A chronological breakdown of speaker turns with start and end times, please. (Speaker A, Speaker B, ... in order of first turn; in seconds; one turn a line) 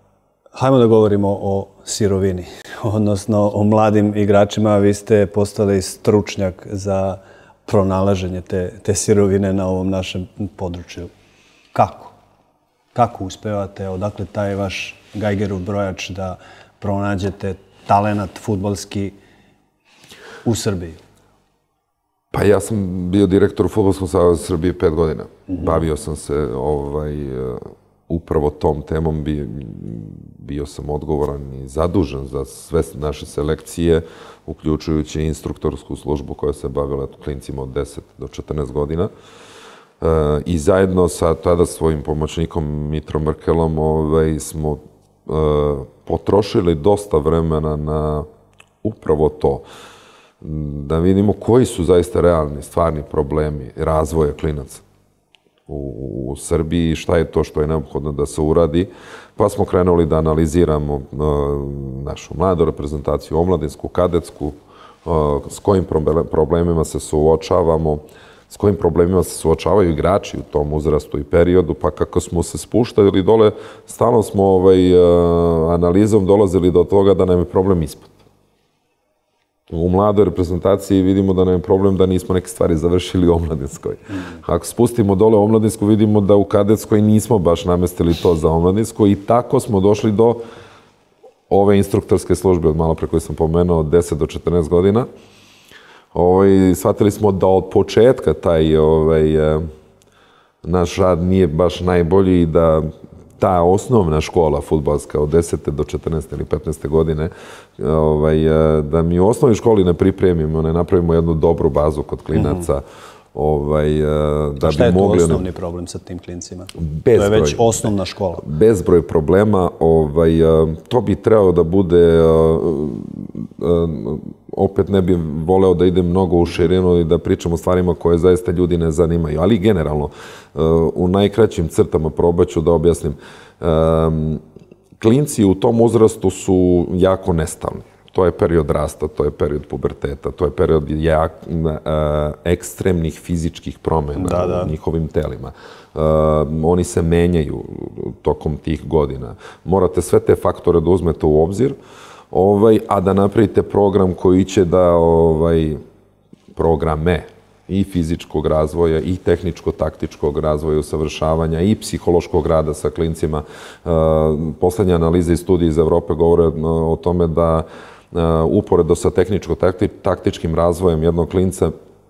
Speaker A: 0.5-11.1
Speaker A: 11.7-12.1
Speaker A: 12.9-19.1
Speaker A: 20.4-21.0
Speaker B: 22.3-39.1
Speaker B: 40.0-48.2
Speaker B: 48.8-49.6
Speaker B: 50.4-54.8
Speaker B: 55.7-78.1
Speaker B: 79.7-90.4
Speaker B: 91.5-95.1
Speaker B: 96.1-99.6
Speaker B: 100.6-112.8
Speaker A: 112.3-112.6
Speaker B: 113.3-115.5
Speaker A: 114.6-118.5
Speaker B: 116.7-134.4
Speaker B: 135.0-151.8
Speaker A: 144.1-144.7
Speaker B: 152.3-155.8
Speaker B: 156.5-171.7